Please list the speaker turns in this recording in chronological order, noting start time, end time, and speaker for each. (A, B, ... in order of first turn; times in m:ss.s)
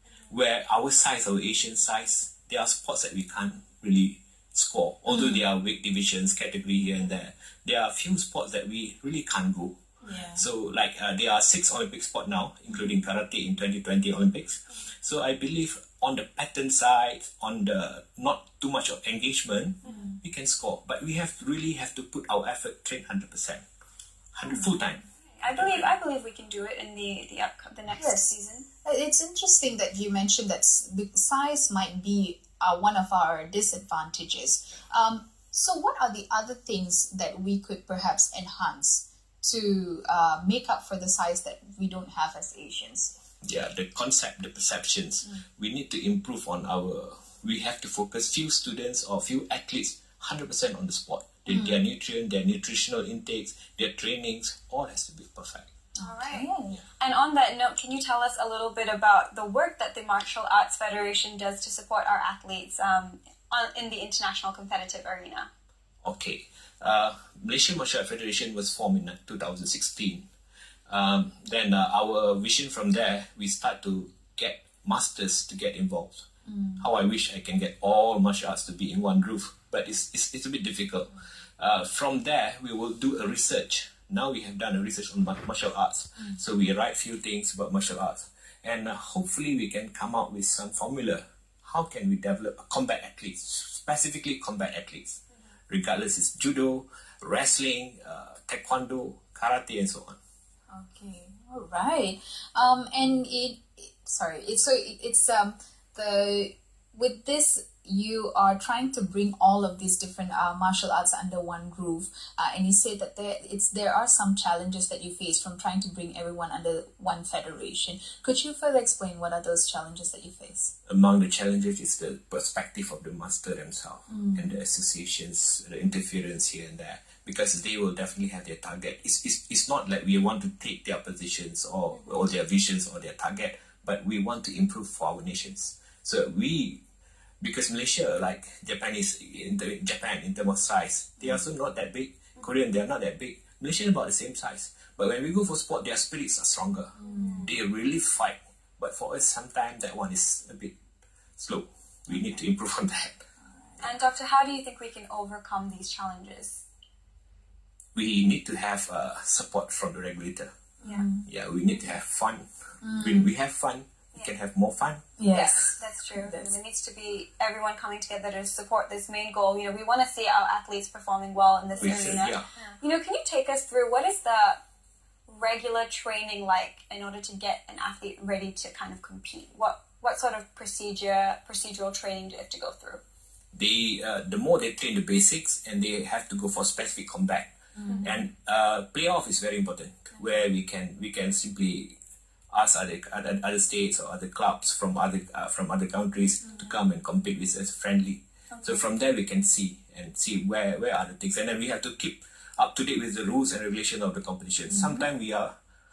0:00.3-0:09.8 A
0:10.0-0:10.5 B
0:10.3-0:23.6 A
0:12.7-0:13.0 B
0:19.8-0:20.2 B
0:24.3-0:25.9 A
0:24.5-0:24.8 B
0:25.4-0:28.6 C
0:27.9-0:28.3 B
0:28.8-0:43.2 B
0:43.4-0:55.7 A
0:51.5-0:51.8 B
0:56.0-0:56.8 B
0:56.0-1:05.5 C
1:06.0-1:10.3 A
1:10.9-1:16.3 A
1:16.5-1:16.9 B
1:16.8-1:40.2 A
1:40.7-2:00.7 B
2:00.9-2:16.8 A
2:04.1-2:04.6 B
2:17.4-2:30.8 A
2:27.0-2:27.5 B
2:27.1-2:27.5 C
2:31.4-2:33.2 A
2:32.1-2:32.4 B
2:33.6-2:34.0 B
2:33.8-2:36.6 C
2:38.0-2:40.5 A
2:40.8-2:41.3 B
2:41.2-2:42.5 A
2:42.8-2:43.3 B
2:43.0-2:45.1 A
2:45.2-2:46.5 B
2:45.3-2:54.6 C
2:51.8-2:52.4 A
2:55.3-3:03.0 C
3:03.5-3:12.0 A
3:07.8-3:08.1 B
3:12.5-3:25.5 A
3:24.7-3:25.1 B